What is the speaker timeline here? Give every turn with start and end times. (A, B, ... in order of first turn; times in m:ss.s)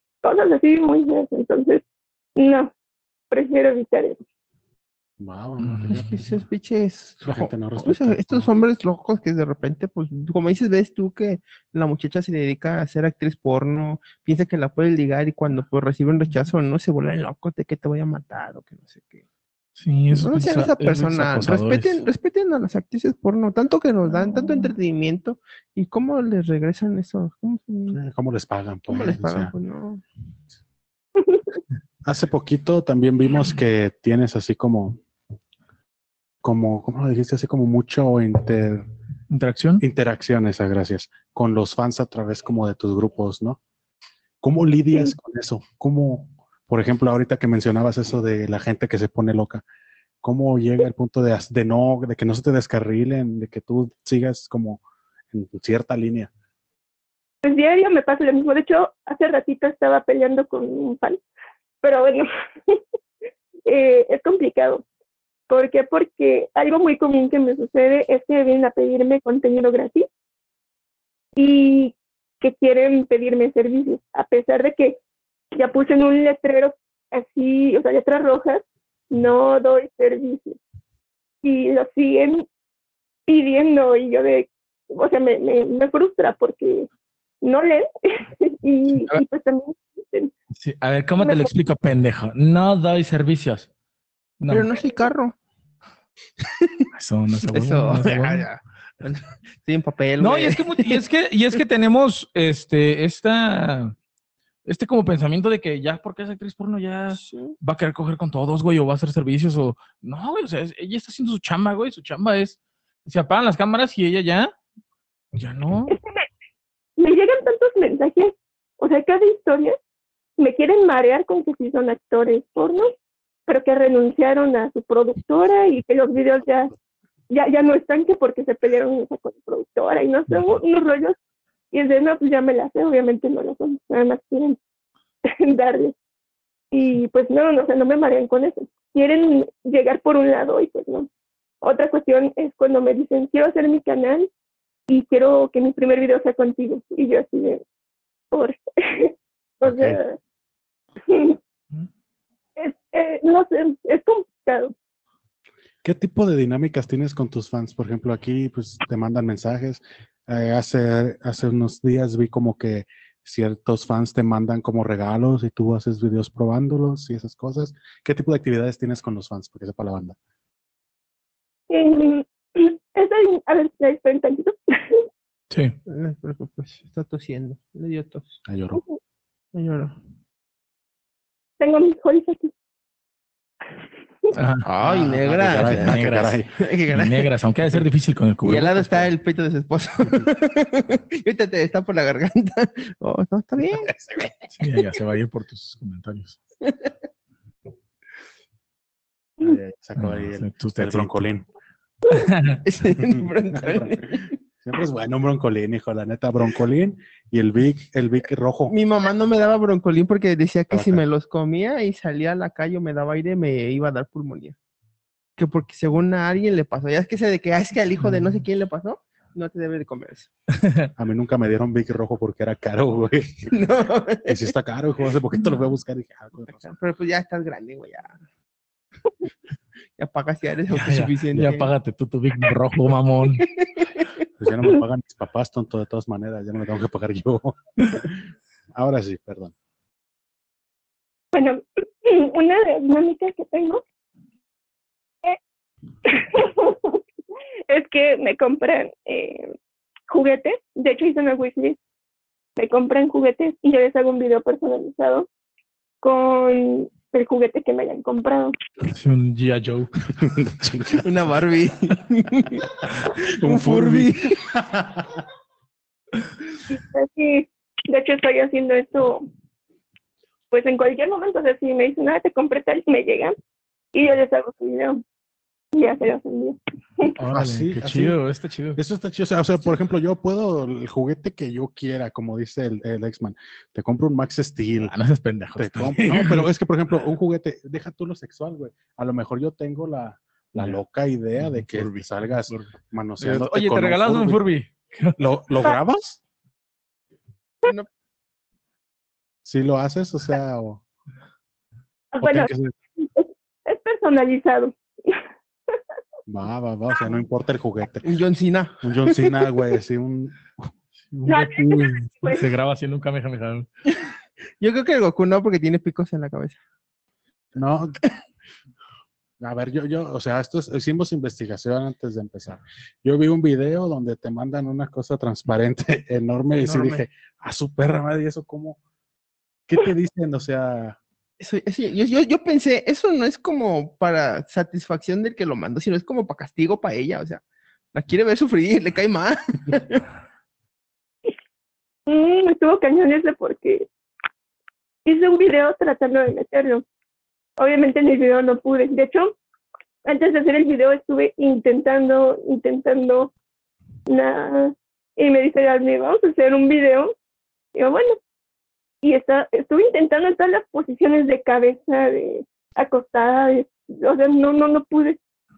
0:00.2-0:01.8 A
0:02.4-0:02.7 A
0:03.3-0:04.2 A
0:05.2-0:06.1 B
0:05.6-0:06.1 C
0:05.9-0:19.2 D
0:07.3-0:08.5 B
0:19.8-0:22.0 C
0:20.1-0:28.0 D
0:27.9-0:29.5 B
0:28.9-0:30.0 D
0:32.0-0:35.0 B
0:36.4-0:38.8 B
0:39.3-0:39.8 C
0:39.8-0:43.6 B
0:44.4-0:49.6 B
0:50.2-0:54.8 B
0:55.3-0:56.3 B
0:57.4-1:01.2 A
1:01.8-1:02.8 A
1:03.7-1:04.8 A
1:05.5-1:10.1 A
1:11.4-1:15.0 A
1:15.5-1:20.6 A
1:21.4-1:22.5 A
1:23.3-1:26.9 A
1:27.4-1:30.3 A
1:30.6-1:33.7 C
1:31.2-1:31.5 A
1:34.4-1:34.7 C
1:34.5-1:35.4 D
1:36.4-1:36.8 D
1:37.0-1:38.5 C
1:37.5-1:41.0 D
1:40.2-1:44.0 C
1:44.7-1:54.5 C
1:47.1-1:47.6 D
1:55.3-1:56.0 C
1:55.9-1:56.3 A
1:57.0-1:59.8 A
2:00.4-2:02.9 A
2:03.5-2:06.7 A
2:07.3-2:11.2 A
2:11.7-2:14.6 A
2:15.2-2:16.0 A
2:16.7-2:21.1 A
2:21.6-2:24.3 A
2:24.9-2:27.6 A
2:28.3-2:30.2 A
2:29.6-2:30.0 B
2:31.1-2:31.4 A
2:32.6-2:34.7 A
2:35.8-2:50.2 B
2:51.7-2:55.1 A
2:55.5-2:55.8 C
2:55.9-2:58.4 D
2:58.5-2:58.8 B
2:59.5-3:00.0 D
3:01.6-3:02.5 A
3:04.3-3:04.6 C
3:04.6-3:07.3 D
3:04.8-3:06.5 B
3:05.6-3:06.4 C
3:06.9-3:09.1 C
3:08.4-3:13.9 D
3:13.9-3:14.3 B
3:14.6-3:16.4 C
3:16.6-3:16.9 D
3:19.4-3:21.5 B
3:20.0-3:21.3 C
3:22.1-3:22.6 C
3:22.6-3:24.3 D
3:23.1-3:28.8 B
3:28.7-3:34.6 D
3:30.7-3:31.0 B
3:35.4-3:40.3 D
3:40.6-3:40.9 C
3:41.0-3:43.5 B
3:43.5-3:44.5 D
3:44.3-3:46.7 B
3:46.6-3:48.2 D
3:50.0-3:51.7 D
3:50.7-3:53.5 C
3:53.4-3:54.1 D
3:54.4-3:59.5 B
4:01.3-4:03.8 A
4:06.0-4:07.0 A
4:07.7-4:09.5 A
4:10.1-4:11.8 A
4:12.6-4:15.3 A
4:16.0-4:18.6 A
4:18.9-4:19.9 C
4:20.2-4:21.0 B
4:21.0-4:24.4 D
4:23.2-4:25.2 B
4:26.7-4:29.3 A
4:30.5-4:33.4 A
4:33.9-4:35.0 A
4:35.7-4:37.1 A
4:37.2-4:38.8 C
4:37.3-4:38.2 B
4:38.8-4:44.9 B
4:44.8-4:46.5 C
4:45.6-4:54.4 B
4:51.4-4:52.7 C
4:53.2-4:55.2 C
4:55.2-4:56.2 B
4:59.4-5:00.8 B
5:02.1-5:05.8 A
5:02.2-5:02.7 B
5:06.3-5:08.1 B
5:08.0-5:09.3 D
5:08.8-5:10.7 B
5:11.1-5:13.7 C
5:11.3-5:12.4 A
5:14.6-5:16.6 D
5:17.5-5:18.0 B
5:19.4-5:28.8 B
5:26.5-5:27.0 D
5:29.7-5:31.0 B
5:31.4-5:37.4 D
5:37.9-5:40.0 D
5:42.1-5:43.9 A
5:45.0-5:46.8 A
5:47.6-5:49.3 A
5:50.0-5:53.3 A
5:54.1-5:57.1 A
5:57.7-5:58.2 A
5:59.0-6:05.2 A